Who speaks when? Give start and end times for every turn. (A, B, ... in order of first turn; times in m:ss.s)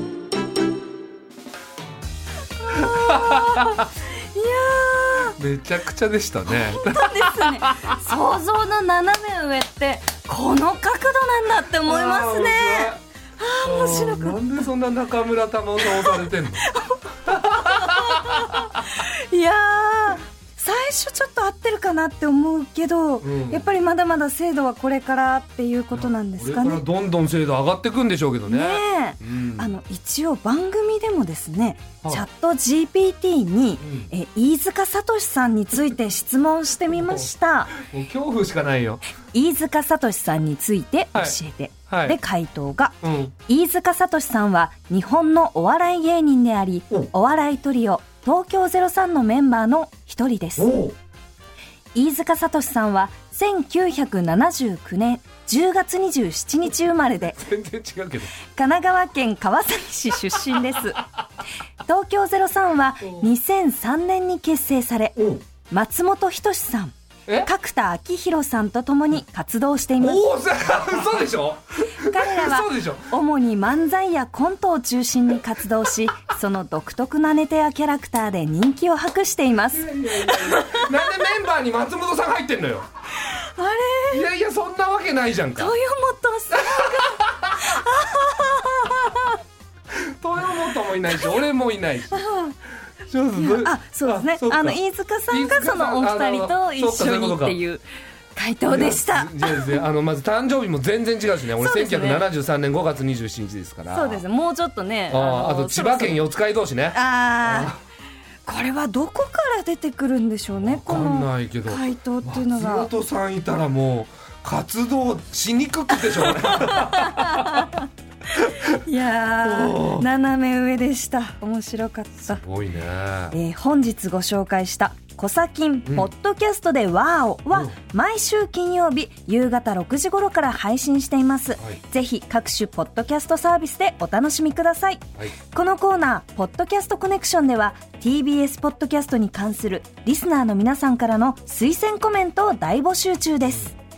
0:02.7-0:05.4 A
0:02.9-0:03.7 B
0:05.3-0:08.0 B
0:06.5-0:14.4 A
0:11.8-0:13.0 B
0:13.6-0:16.6 B
0:15.8-0:26.8 A
0:17.3-0:18.4 B
0:23.2-0:23.7 B
0:25.9-0:29.7 B
0:28.5-0:37.7 A
0:33.8-0:34.1 B
0:37.8-0:39.0 B
0:39.3-0:50.8 A
0:41.9-0:42.2 B
0:43.0-0:43.3 B
0:50.6-0:50.9 B
0:51.9-0:57.4 A
0:57.4-0:58.3 B
0:58.5-1:01.0 A
1:01.8-1:10.2 A
1:10.0-1:13.1 B
1:12.0-1:20.9 A
1:19.7-1:22.9 B
1:23.2-1:24.2 A
1:24.1-1:25.7 B
1:25.6-1:29.4 A
1:26.6-1:27.5 B
1:29.9-1:32.2 B
1:32.1-1:32.5 A
1:33.1-1:34.8 B
1:33.4-1:37.8 A
1:35.3-1:37.6 B
1:38.3-1:39.8 A
1:38.7-1:44.2 B
1:41.6-1:42.2 A
1:43.9-1:46.2 A
1:45.1-1:47.8 B
1:46.9-1:47.7 A
1:48.4-1:52.9 A
1:50.5-1:57.6 B
1:56.3-1:57.8 A
1:58.4-2:02.4 A
1:59.4-2:00.0 B
2:02.3-2:03.3 B
2:03.3-2:23.7 A